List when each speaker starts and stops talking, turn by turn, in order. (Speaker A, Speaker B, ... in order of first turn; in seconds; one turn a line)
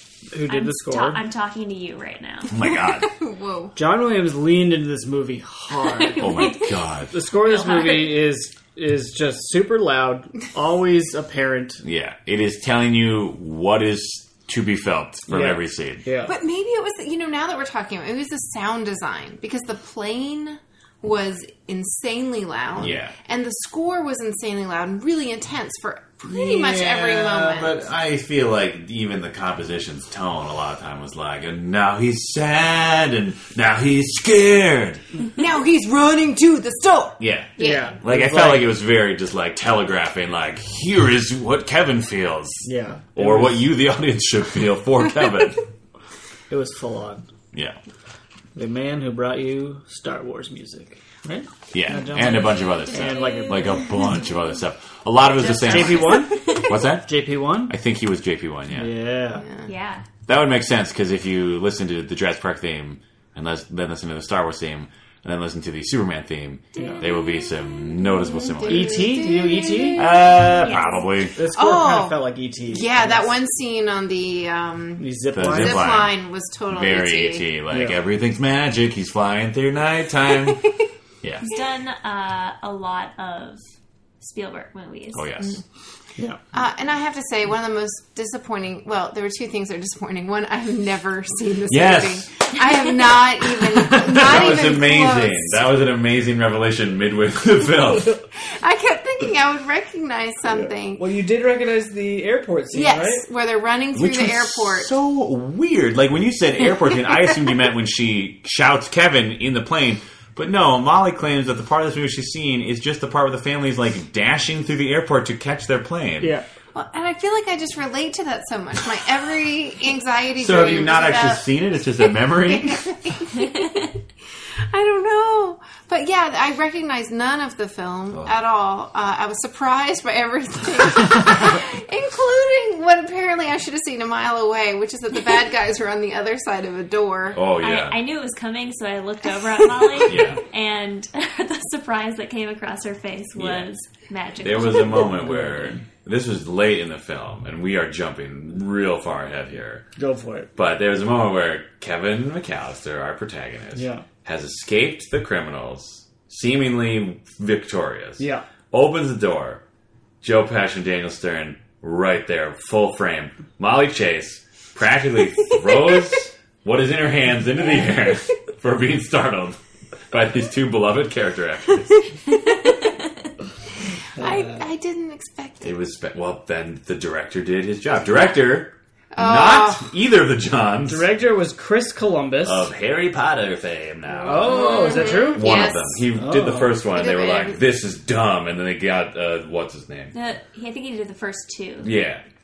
Speaker A: 0.3-1.2
Speaker B: 0.5-2.6
Speaker C: 2.5-3.1
Speaker D: 2.9-3.7
Speaker A: 3.8-6.5
Speaker B: 5.8-6.8
Speaker C: 6.2-7.1
Speaker A: 7.1-11.8
Speaker B: 7.4-8.2
Speaker C: 11.8-16.0
Speaker A: 15.3-16.3
Speaker D: 16.2-27.9
Speaker C: 22.8-23.1
Speaker C: 26.2-35.0
Speaker D: 35.3-37.9
Speaker C: 37.2-45.6
Speaker A: 37.6-38.7
Speaker A: 42.6-43.7
Speaker A: 46.5-47.3
Speaker C: 47.5-47.8
Speaker A: 48.5-53.9
Speaker C: 51.7-58.9
Speaker B: 52.3-54.3
Speaker B: 55.4-56.8
Speaker A: 55.6-57.8
Speaker D: 55.9-56.2
Speaker A: 58.7-59.5
Speaker D: 59.4-59.7
Speaker B: 59.6-60.0
Speaker C: 60.3-69.1
Speaker B: 66.7-67.5
Speaker A: 66.8-67.0
Speaker D: 68.0-70.3
Speaker A: 68.7-70.1
Speaker C: 70.0-71.4
Speaker B: 70.6-71.1
Speaker A: 71.3-73.3
Speaker D: 71.5-77.5
Speaker A: 75.0-75.9
Speaker C: 75.3-76.2
Speaker C: 76.7-80.7
Speaker A: 77.7-78.0
Speaker D: 80.4-80.8
Speaker B: 81.4-83.6
Speaker B: 84.2-85.3
Speaker C: 85.1-85.6
Speaker D: 86.5-95.7
Speaker C: 91.7-92.3
Speaker A: 93.8-94.2
Speaker C: 93.9-98.2
Speaker D: 98.3-101.0
Speaker A: 100.5-103.2
Speaker D: 102.7-104.9
Speaker C: 103.9-116.3
Speaker A: 116.2-116.5
Speaker D: 116.7-123.9
Speaker C: 120.4-123.0
Speaker D: 124.7-137.4
Speaker C: 137.3-138.0
Speaker B: 137.6-145.1
Speaker C: 140.0-140.4
Speaker C: 143.3-143.7
Speaker C: 144.4-149.8
Speaker A: 144.8-145.8
Speaker A: 150.0-150.5
Speaker C: 150.6-159.6
Speaker A: 153.7-154.1
Speaker A: 158.2-158.4
Speaker C: 160.2-169.6
Speaker C: 170.1-172.0
Speaker A: 174.2-174.7
Speaker D: 174.2-175.7
Speaker C: 175.6-181.1
Speaker D: 179.1-179.9
Speaker A: 180.8-182.7
Speaker C: 182.4-190.1
Speaker A: 184.2-186.8
Speaker D: 184.3-186.0
Speaker D: 186.9-187.6
Speaker B: 190.1-191.9
Speaker C: 191.8-192.2